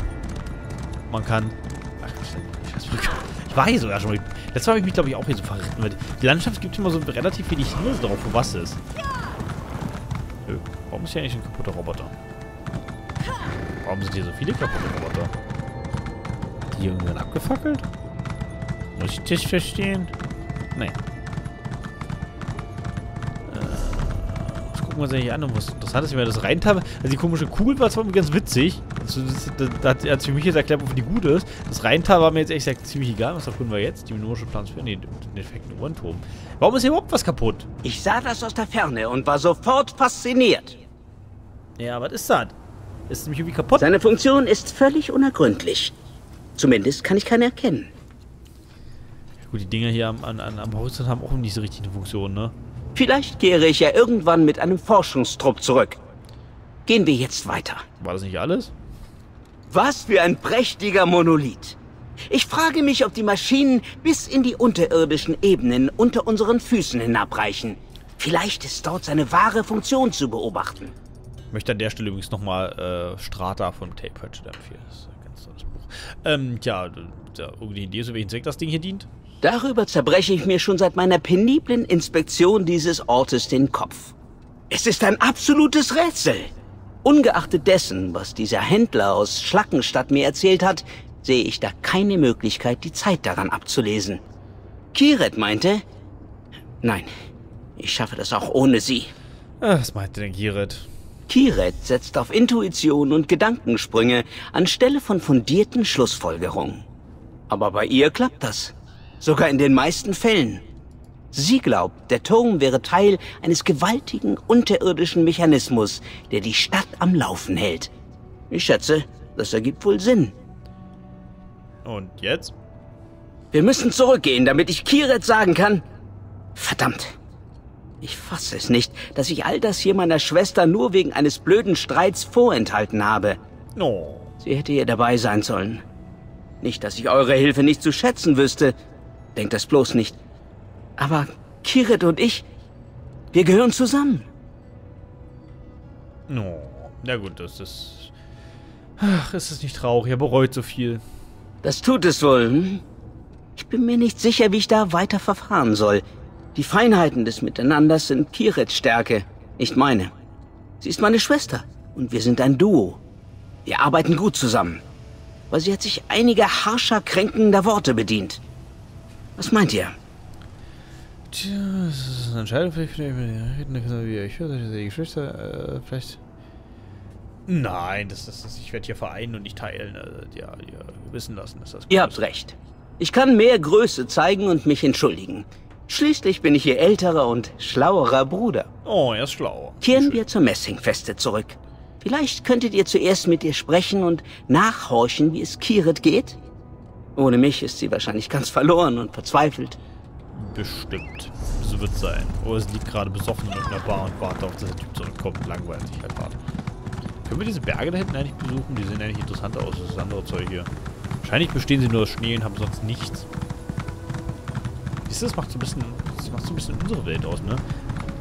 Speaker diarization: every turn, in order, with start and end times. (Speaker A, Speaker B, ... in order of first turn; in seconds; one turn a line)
Speaker A: 1.1-8.8
Speaker A: 10.4-12.1
Speaker A: 13.8-15.3
Speaker A: 16.7-17.9
Speaker A: 18.9-20.1
Speaker A: 23.5-37.7
Speaker B: 37.8-40.8
Speaker A: 41.8-42.5
Speaker A: 43.1-43.9
Speaker B: 43.8-45.9
Speaker B: 46.5-47.9
Speaker A: 49.5-52.5
Speaker B: 52.9-56.0
Speaker B: 56.9-57.8
Speaker A: 58.0-58.7
Speaker B: 59.7-61.8
Speaker B: 62.3-70.9
Speaker A: 71.5-79.1
Speaker B: 79.4-84.1
Speaker B: 84.7-86.5
Speaker B: 87.0-94.2
Speaker B: 94.9-95.8
Speaker B: 96.8-97.1
Speaker B: 97.8-99.1
Speaker A: 99.6-100.9
Speaker B: 101.3-106.8
Speaker B: 107.5-110.6
Speaker B: 111.3-117.9
Speaker B: 118.5-120.3
Speaker A: 121.8-122.5
Speaker B: 123.5-125.8
Speaker B: 126.5-127.2
Speaker B: 128.0-133.4
Speaker A: 133.8-134.3
Speaker B: 134.4-135.8
Speaker B: 136.6-138.8
Speaker B: 139.3-140.2
Speaker B: 141.0-142.4
Speaker B: 143.3-144.3
Speaker A: 146.3-148.1
Speaker A: 149.0-151.0
Speaker B: 151.6-152.8
Speaker B: 153.6-156.0
Speaker B: 156.5-160.1
Speaker B: 160.8-163.0
Speaker B: 163.7-164.8
Speaker B: 165.5-168.4
Speaker B: 169.4-169.9
Speaker A: 171.3-176.2
Speaker A: 177.5-182.2
Speaker B: 181.9-188.7
Speaker A: 188.8-190.2
Speaker B: 189.8-196.4
Speaker B: 197.2-199.8
Speaker A: 200.3-206.4
Speaker A: 207.2-210.7
Speaker A: 211.2-213.3
Speaker A: 215.1-217.6